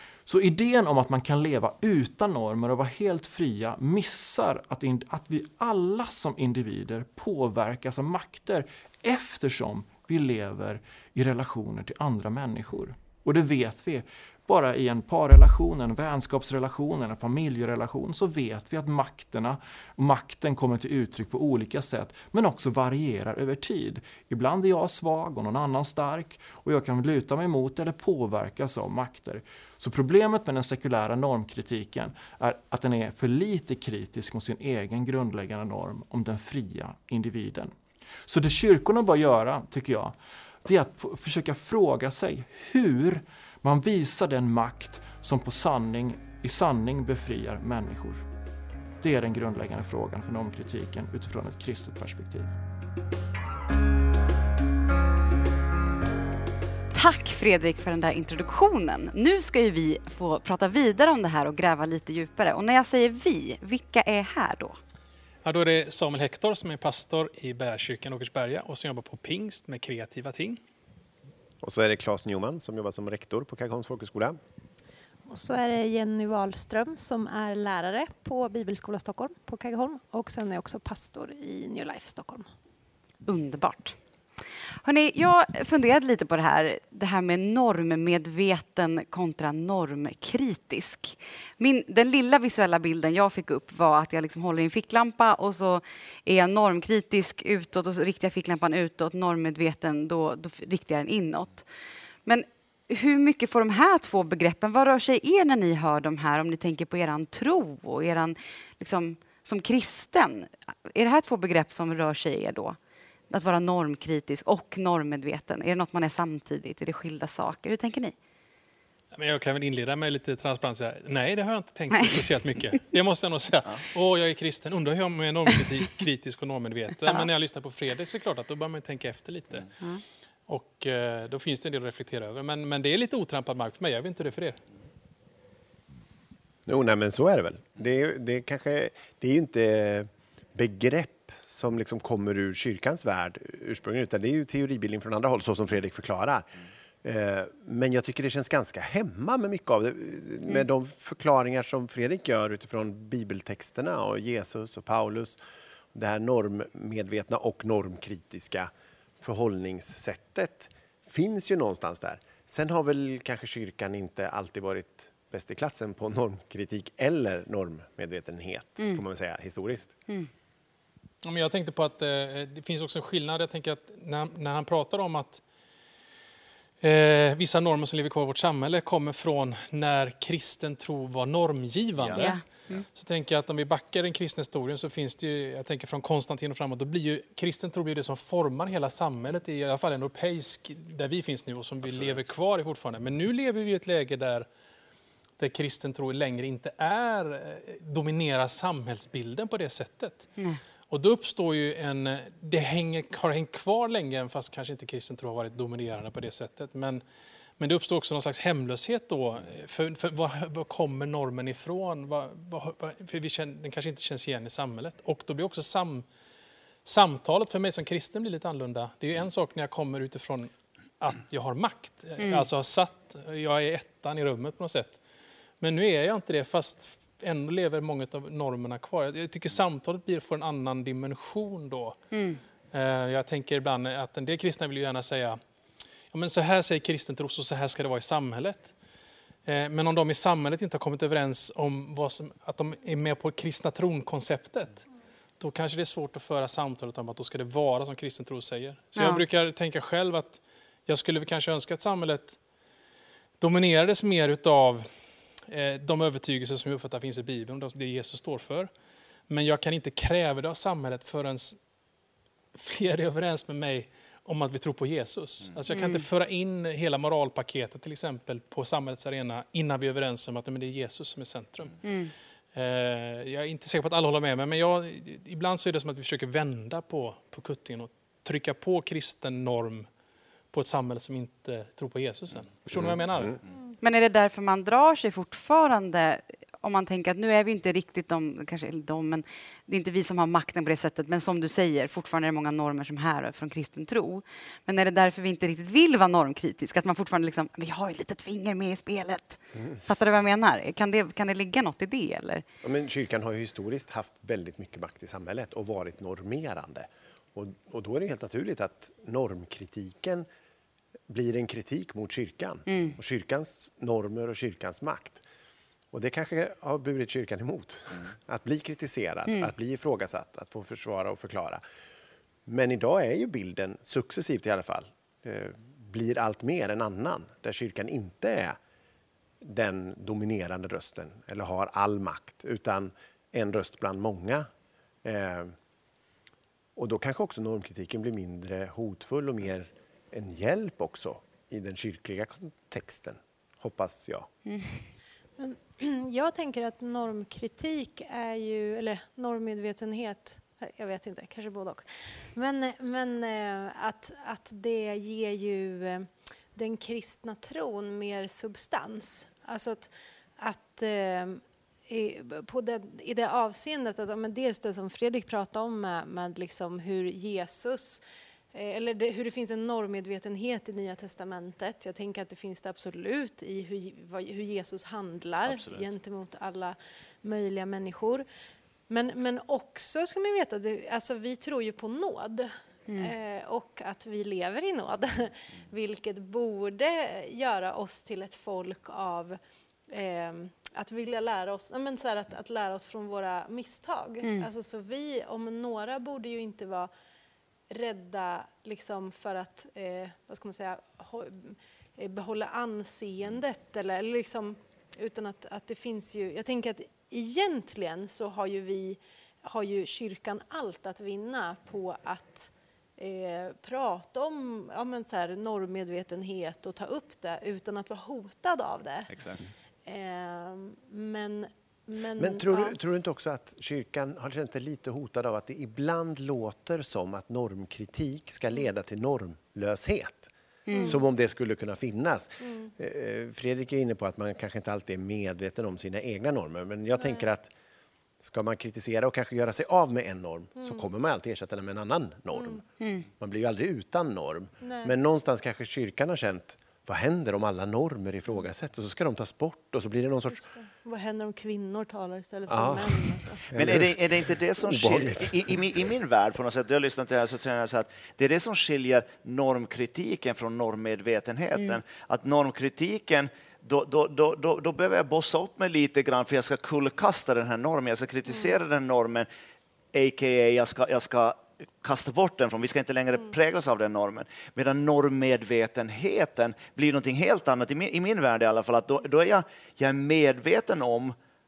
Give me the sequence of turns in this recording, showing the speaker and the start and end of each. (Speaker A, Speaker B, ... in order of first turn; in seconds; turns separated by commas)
Speaker A: 0.3-37.7, Speaker A: 38.3-48.2, Speaker A: 49.0-52.5, Speaker B: 56.9-64.8, Speaker C: 65.4-70.6, Speaker D: 71.6-74.4, Speaker E: 75.3-82.5, Speaker B: 83.2-84.0, Speaker B: 84.8-101.6, Speaker B: 102.3-112.8, Speaker B: 113.3-118.2, Speaker C: 119.1-129.7, Speaker C: 130.5-134.6, Speaker D: 136.7-146.5, Speaker D: 147.0-155.4, Speaker D: 155.9-169.9, Speaker B: 168.8-169.0, Speaker C: 171.2-175.4, Speaker C: 176.8-194.5, Speaker F: 182.0-182.3, Speaker B: 182.2-182.8, Speaker F: 191.8-192.2, Speaker C: 195.4-200.3, Speaker C: 200.9-207.0, Speaker C: 207.6-216.1, Speaker C: 216.8-225.0, Speaker C: 225.6-232.0, Speaker B: 232.1-232.4, Speaker C: 232.7-235.4, Speaker C: 236.1-238.7, Speaker C: 239.4-244.9, Speaker C: 245.4-252.4, Speaker B: 249.0-249.2, Speaker C: 253.4-254.9, Speaker C: 255.5-258.7, Speaker C: 259.3-261.6, Speaker C: 262.5-271.8, Speaker B: 265.7-266.0, Speaker B: 271.8-272.1, Speaker C: 272.5-279.9, Speaker C: 280.5-283.4, Speaker B: 283.8-302.4, Speaker D: 302.6-310.3, Speaker D: 311.1-315.2, Speaker B: 312.7-312.9, Speaker D: 315.9-321.6, Speaker D: 322.5-328.6, Speaker D: 329.4-334.5, Speaker D: 335.0-335.5, Speaker D: 336.8-344.3, Speaker B: 344.5-344.8, Speaker E: 345.4-368.0, Speaker E: 368.5-378.2, Speaker F: 375.5-375.9, Speaker E: 378.9-389.4, Speaker E: 389.9-396.9, Speaker E: 397.7-419.1, Speaker F: 419.1-419.5, Speaker E: 419.9-422.8, Speaker D: 422.2-437.5, Speaker B: 430.7-431.0, Speaker E: 432.5-432.7, Speaker E: 437.0-437.3, Speaker D: 438.2-450.4, Speaker E: 440.6-440.9, Speaker E: 442.3-442.6, Speaker B: 442.8-443.1, Speaker E: 444.6-444.9, Speaker E: 450.4-453.5, Speaker D: 452.5-455.6, Speaker F: 453.6-469.3, Speaker F: 469.9-481.1